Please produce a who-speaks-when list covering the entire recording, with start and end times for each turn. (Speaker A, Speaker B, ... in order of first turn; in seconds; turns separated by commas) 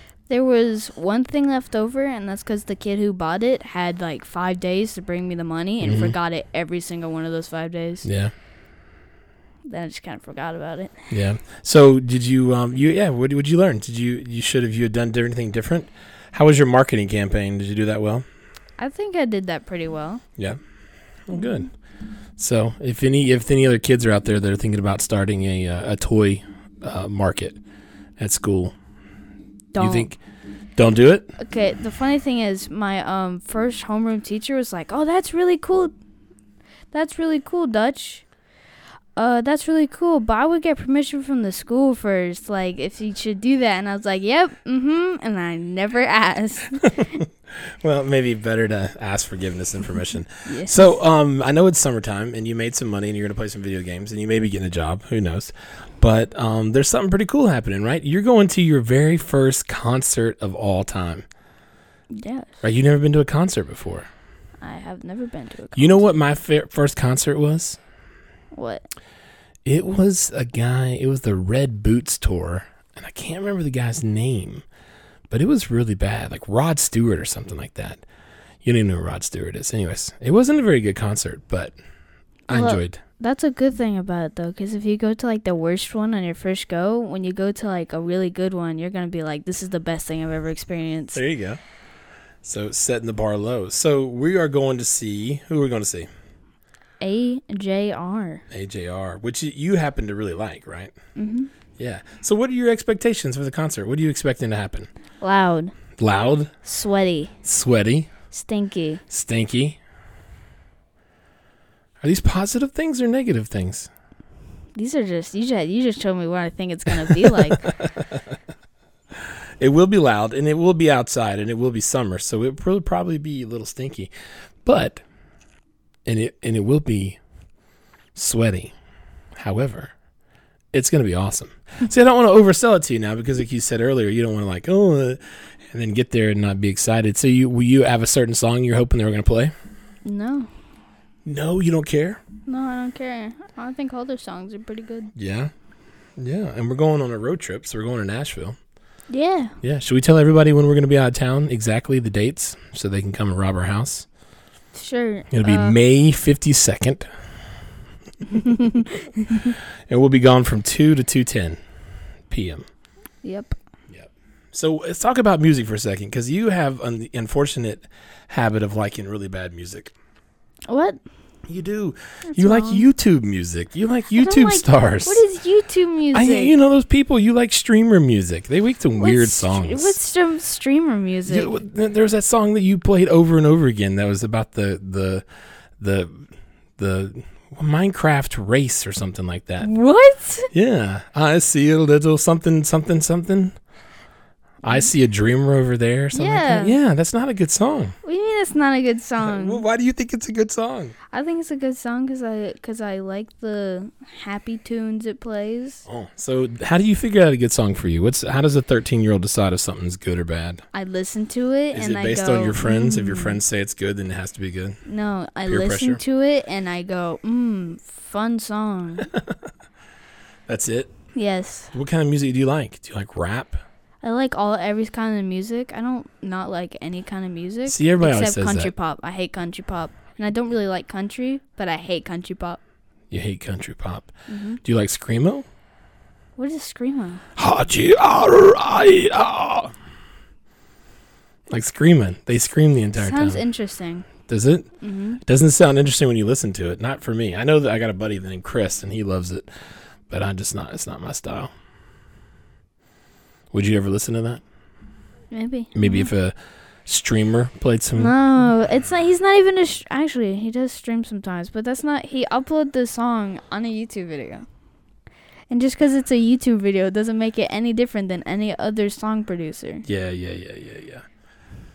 Speaker A: 0.3-8.1, Speaker B: 5.8-6.2, Speaker B: 8.0-8.3, Speaker A: 9.7-10.9, Speaker B: 11.1-18.2, Speaker A: 18.8-20.2, Speaker B: 21.2-21.7, Speaker B: 22.4-27.6, Speaker B: 28.2-28.7, Speaker A: 29.7-30.1, Speaker B: 29.8-30.2, Speaker B: 30.8-31.3, Speaker A: 31.4-35.9, Speaker A: 36.9-38.2, Speaker A: 39.1-47.0, Speaker B: 46.8-61.2, Speaker A: 50.4-51.0, Speaker A: 62.1-62.6, Speaker B: 62.6-64.1, Speaker A: 64.6-66.0, Speaker B: 65.8-67.8, Speaker A: 68.5-68.9, Speaker B: 69.6-74.6, Speaker B: 75.3-78.0, Speaker B: 78.6-81.7, Speaker B: 82.5-83.0, Speaker A: 82.5-91.2, Speaker B: 91.1-91.6, Speaker B: 92.4-96.1, Speaker A: 97.0-98.4, Speaker B: 98.5-100.9, Speaker A: 101.2-101.5, Speaker B: 101.8-104.9, Speaker A: 105.2-105.7, Speaker B: 106.0-106.5, Speaker A: 106.6-107.3, Speaker B: 107.4-108.1, Speaker A: 108.3-109.0, Speaker B: 109.1-109.8, Speaker B: 112.0-113.9, Speaker A: 114.7-117.7, Speaker B: 117.1-118.2, Speaker B: 119.6-124.1, Speaker B: 124.6-125.0, Speaker B: 126.0-127.2, Speaker B: 128.1-128.7, Speaker B: 129.4-129.9, Speaker B: 130.7-135.2, Speaker B: 135.7-139.5, Speaker A: 140.0-140.5, Speaker B: 141.2-142.2, Speaker A: 142.4-145.1, Speaker B: 145.2-145.5, Speaker B: 146.2-148.6, Speaker A: 149.1-149.5, Speaker B: 149.6-154.1, Speaker A: 154.7-155.8, Speaker B: 155.3-157.1, Speaker A: 158.3-159.5, Speaker B: 159.9-161.6, Speaker B: 162.3-162.6, Speaker A: 163.2-163.5, Speaker B: 163.9-169.9, Speaker A: 170.7-171.0, Speaker B: 171.5-175.2, Speaker A: 172.2-172.8, Speaker A: 174.1-176.5, Speaker B: 176.1-180.0, Speaker A: 178.9-181.5, Speaker B: 181.2-185.2, Speaker B: 185.8-186.3, Speaker B: 186.8-189.7, Speaker A: 189.6-190.5, Speaker B: 190.5-193.5, Speaker B: 194.6-197.9, Speaker A: 196.1-196.8, Speaker A: 198.0-199.6, Speaker B: 199.2-200.9, Speaker A: 201.1-205.8, Speaker B: 205.9-210.6, Speaker A: 210.7-213.4, Speaker B: 211.7-214.8, Speaker A: 214.8-219.1, Speaker B: 215.4-216.0, Speaker B: 220.5-220.9, Speaker A: 221.1-221.7, Speaker B: 221.7-223.6, Speaker A: 224.0-232.6, Speaker B: 227.7-228.7, Speaker B: 233.1-234.1, Speaker A: 234.3-234.6, Speaker B: 234.6-235.4, Speaker A: 236.4-237.2, Speaker B: 237.4-239.7, Speaker B: 241.5-243.4, Speaker A: 242.9-244.1, Speaker B: 244.3-244.7, Speaker A: 244.8-245.2, Speaker B: 245.2-249.4, Speaker B: 250.1-251.5, Speaker B: 253.5-254.4, Speaker A: 255.3-256.1, Speaker B: 255.7-256.3, Speaker B: 256.9-258.1, Speaker A: 257.9-264.4, Speaker A: 265.5-269.8, Speaker B: 269.9-271.0